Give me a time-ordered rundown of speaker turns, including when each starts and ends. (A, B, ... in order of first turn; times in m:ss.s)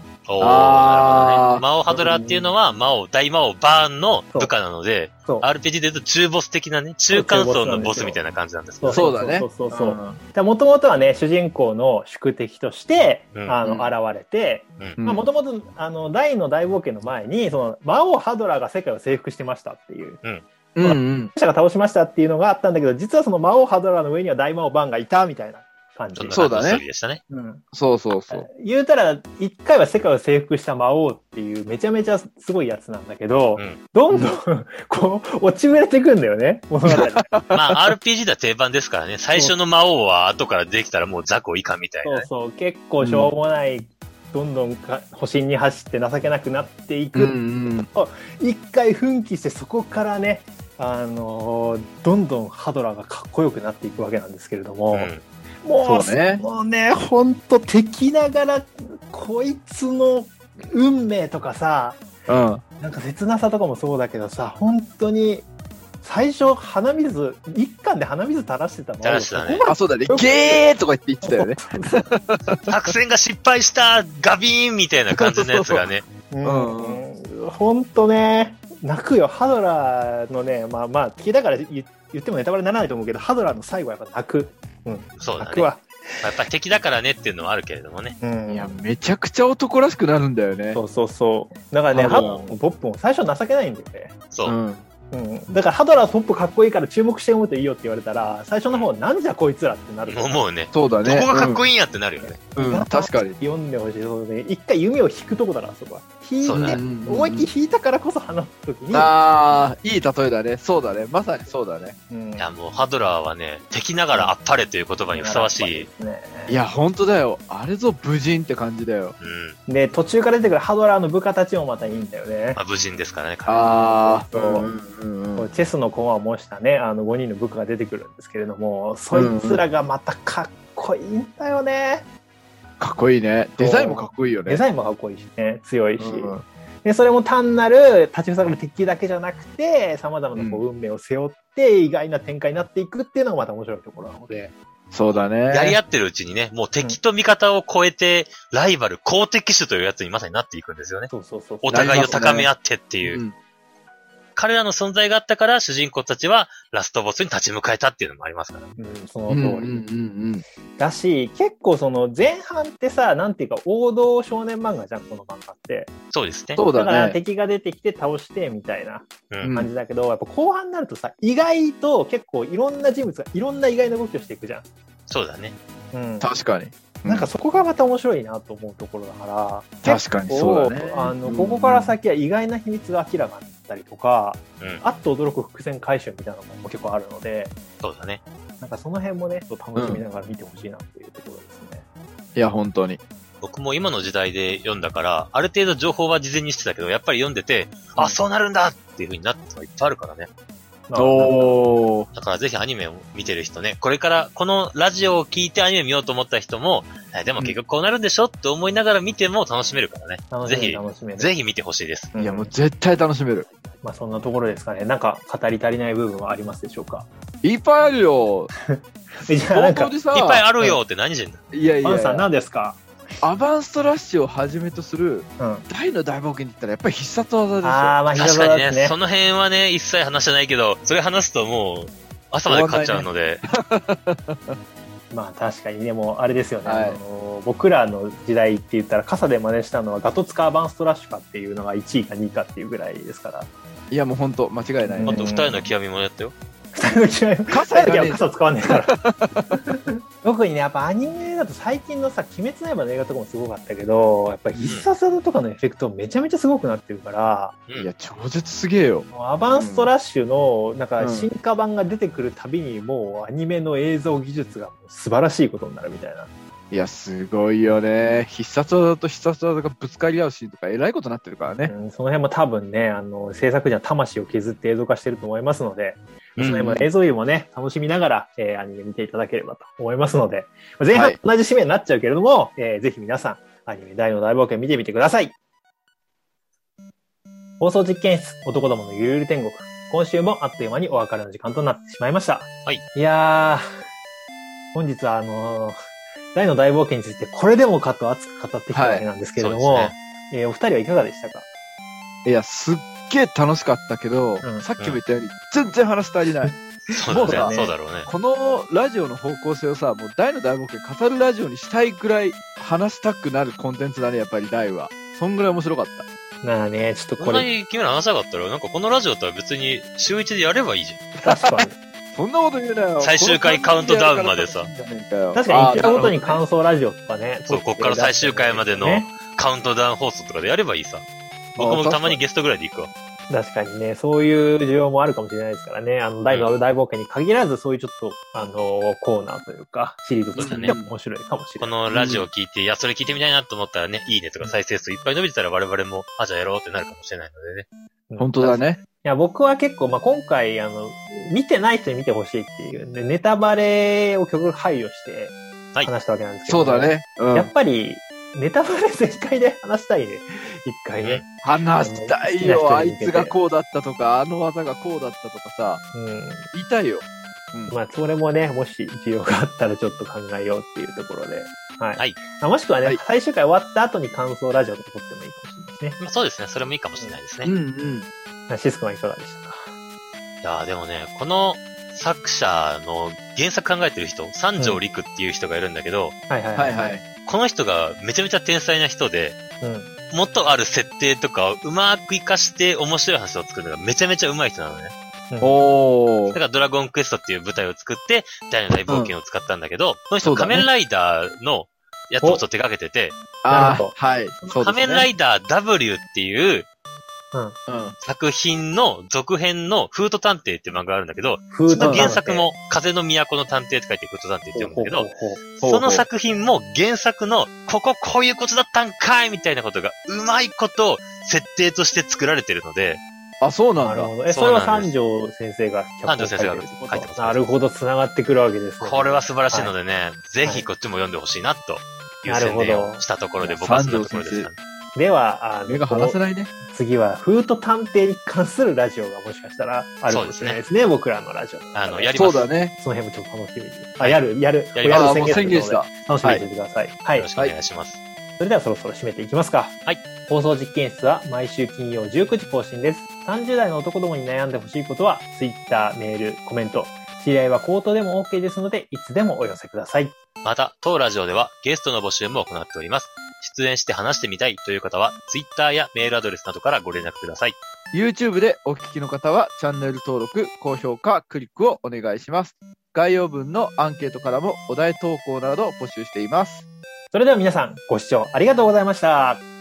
0:00.3-0:09.1 A
0:00.4-0:01.6 B
0:01.9-0:02.5 C
0:07.1-0:08.2 C
0:08.8-0:20.2 C
0:08.9-0:10.2 B
0:13.3-0:13.6 A
0:13.6-0:13.9 B
0:15.0-0:15.2 B
0:20.7-0:21.3 B
0:20.8-0:26.5 C
0:26.2-0:27.2 A
0:26.3-0:26.8 B
0:27.3-0:27.6 C
0:27.7-0:28.5 B
0:28.3-0:37.3 C
0:36.9-0:37.8 B
0:37.5-0:42.3 A
0:42.0-0:55.1 C
0:43.0-0:43.3 B
0:47.1-0:47.9 B
0:54.9-0:55.2 A
0:55.6-1:02.0 C
0:55.8-0:56.4 B
1:02.3-1:02.6 B
1:02.8-1:05.4 C
1:06.0-1:10.6 C
1:09.0-1:09.7 A
1:09.7-1:12.8 B
1:11.2-1:12.1 C
1:12.7-1:16.0 A
1:15.1-1:15.9 B
1:16.3-1:26.4 C
1:16.4-1:17.0 B
1:25.2-1:28.2 A
1:28.2-1:28.8 C
1:28.5-1:30.8 B
1:30.7-1:34.1 C
1:31.9-1:32.5 B
1:34.4-1:34.8 B
1:35.1-1:40.4 C
1:40.0-1:42.4 A
1:40.7-1:41.6 B
1:42.2-1:49.1 C
1:42.5-1:43.4 B
1:46.4-1:46.8 A
1:46.5-1:47.5 B
1:48.9-1:52.0 B
1:52.1-1:52.5 C
1:52.4-1:55.9 A
1:55.1-1:56.6 C
1:56.5-1:59.2 B
1:59.2-1:59.6 A
1:59.7-2:02.6 C
2:02.6-2:03.8 A
2:03.5-2:05.5 B
2:03.8-2:04.7 C
2:05.4-2:12.0 C
2:09.1-2:09.6 B
2:12.8-2:14.6 B
2:13.6-2:24.5 C
2:16.0-2:16.4 B
2:20.3-2:20.6 B
2:24.9-2:25.8 B
2:25.5-2:31.1 A
2:31.1-2:32.5 C
2:31.6-2:33.2 A
2:31.7-2:32.5 B
2:33.0-2:33.3 B
2:34.4-2:38.7 A
2:38.8-2:39.8 C
2:39.3-2:40.4 B
2:40.8-2:45.9 C
2:46.1-2:46.6 A
2:46.6-2:47.2 B
2:46.7-2:54.6 C
2:49.4-2:49.7 B
2:55.1-2:55.6 A
2:55.9-2:56.3 C
2:56.2-2:57.3 B
2:57.0-3:07.5 C
2:59.8-3:01.9 B
3:07.8-3:08.2 A
3:08.6-3:11.8 C
3:09.7-3:10.0 B
3:12.3-3:13.0 B
3:13.4-3:20.3 A
3:20.9-3:21.6 C
3:21.0-3:22.1 B
3:22.1-3:32.1 A
3:30.3-3:31.3 C
3:32.1-3:32.5 C
3:32.2-3:33.5 B
3:33.8-3:37.1 C
3:37.4-3:38.5 B
3:38.6-3:39.9 C
3:39.4-3:40.5 B
3:40.1-3:41.4 A
3:41.5-3:42.3 B
3:41.8-3:42.8 C
3:43.2-3:48.0 B
3:45.4-3:45.6 C
3:47.6-3:48.9 C
3:48.1-3:53.4 A
3:52.5-3:54.6 B
3:55.1-4:03.5 C
3:56.6-3:57.0 B
4:03.9-4:05.2 B
4:04.8-4:05.7 C
4:05.1-4:06.3 A
4:06.7-4:17.6 C
4:07.5-4:09.6 B
4:17.8-4:19.9 B
4:19.1-4:26.3 C
4:21.0-4:21.3 B
4:26.7-4:31.7 B
4:31.7-4:45.3 C
4:36.4-4:36.9 B
4:40.9-4:41.2 B
4:47.6-4:53.6 C
4:54.7-4:55.8 C
4:56.3-5:01.4 C
4:58.7-4:59.0 B
4:59.4-4:59.9 A
5:02.2-5:16.0 B
5:06.9-5:08.1 A
5:07.2-5:07.7 C
5:16.4-5:17.5 C
5:17.2-5:21.1 A
5:21.2-5:21.8 C
5:21.2-5:26.4 B
5:23.0-5:24.7 A
5:25.3-5:29.1 C
5:27.5-5:31.0 A
5:31.6-5:32.9 A
5:31.6-5:32.2 B
5:33.3-5:41.7 C
5:36.3-5:36.6 A
5:40.4-5:40.8 A
5:40.4-5:40.9 B
5:41.6-5:47.7 A
5:41.9-5:42.3 B
5:48.1-6:03.4 C
5:48.2-5:48.8 B
5:56.5-5:57.5 B
6:01.0-6:01.2 A
6:01.4-6:05.8 B
6:05.9-6:06.5 C
6:06.5-6:07.7 B
6:07.7-6:16.0 C
6:16.0-6:17.5 A
6:17.4-6:18.1 B
6:18.5-6:19.6 C
6:20.4-6:26.2 A
6:26.3-6:26.9 C
6:26.6-6:27.0 B
6:27.2-6:29.4 A
6:29.6-6:29.9 C
6:30.1-6:34.9 A
6:35.3-6:35.6 C
6:35.4-6:36.4 B
6:36.3-6:43.2 A
6:38.9-6:39.1 B
6:40.2-6:40.6 B
6:43.4-6:45.1 B
6:43.5-6:43.9 C
6:44.5-6:46.7 A
6:47.7-6:48.0 B
6:48.0-7:03.0 A
6:51.5-6:52.5 C
6:51.8-6:52.2 B
6:54.5-6:55.4 C
6:55.6-6:56.1 B
7:03.4-7:04.1 B
7:03.8-7:09.7 C
7:04.3-7:04.9 A
7:06.1-7:07.5 A
7:08.8-7:14.6 A
7:12.3-7:13.0 C
7:13.5-7:14.5 B
7:14.9-7:27.3 C
7:15.7-7:16.5 B
7:20.1-7:20.6 A
7:21.7-7:22.5 A
7:22.1-7:22.7 B
7:24.7-7:25.5 A
7:24.9-7:26.4 B
7:27.1-7:28.0 A
7:28.4-7:40.1 C
7:40.4-7:47.6 A
7:47.9-7:56.6 B
7:57.1-7:59.4 C